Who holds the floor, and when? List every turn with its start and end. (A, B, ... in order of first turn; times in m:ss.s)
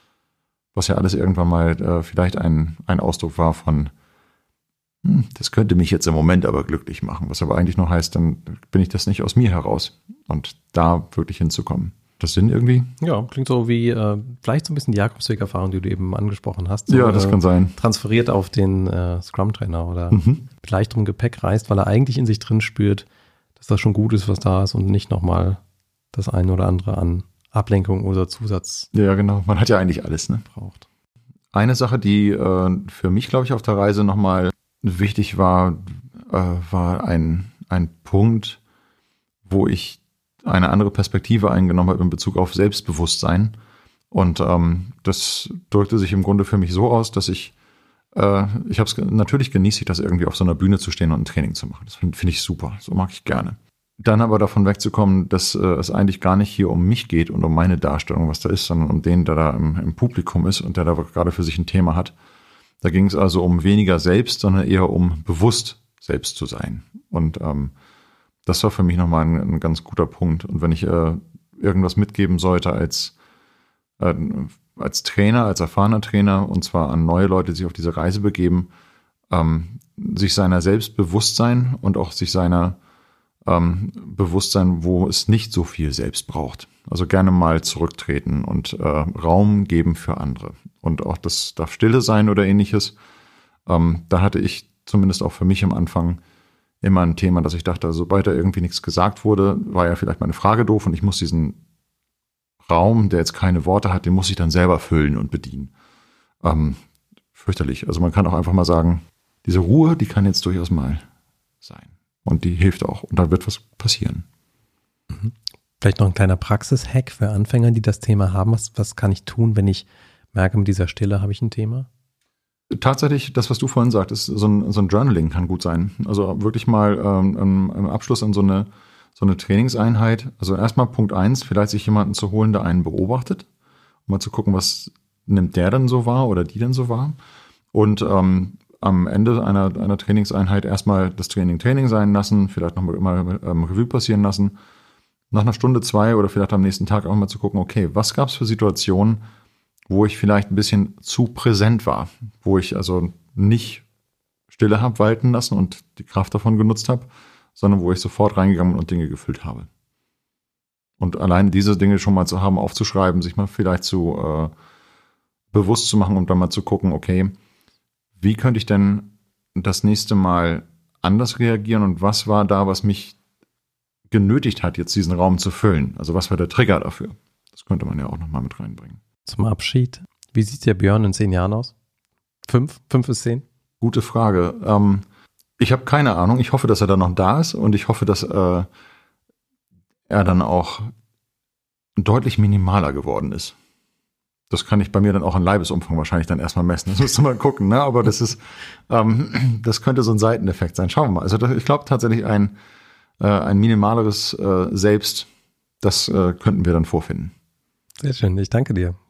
0:00.7-0:03.9 A
0:05.0-0:12.9 A
0:13.0-0:23.1 B
0:16.9-0:17.8 A
0:20.1-0:20.4 A
0:23.6-0:25.6 B
0:26.1-0:28.9 B
0:28.9-0:30.5 A
0:30.5-0:30.9 B
0:31.5-0:38.6 A
0:39.4-0:43.6 A
0:44.1-0:47.6 A
0:48.1-1:02.2 A
1:02.8-1:07.7 A
1:08.5-1:13.2 A
1:14.0-1:18.7 A
1:19.3-1:22.8 A
1:23.4-1:33.0 A
1:33.7-1:36.2 A
1:36.8-1:41.6 A
1:42.6-1:45.7 A
1:46.4-1:46.8 A
1:47.4-1:51.0 A
1:51.6-1:54.2 A
1:55.1-2:01.9 B
2:02.7-2:13.5 A
2:14.1-2:17.2 A
2:17.7-2:24.6 A
2:25.3-2:29.2 A
2:29.9-2:33.8 A
2:34.5-2:39.7 A
2:41.0-2:44.5 A
2:45.5-2:47.4 A
2:48.2-2:53.2 A
2:54.1-2:59.0 A
2:59.2-3:01.7 B
3:02.5-3:03.4 B
3:03.8-3:05.0 A
3:05.6-3:08.7 A
3:10.1-3:10.9 A
3:12.0-3:13.6 A
3:14.5-3:22.6 A
3:23.2-3:25.3 A
3:25.8-3:27.3 A
3:28.0-3:29.0 B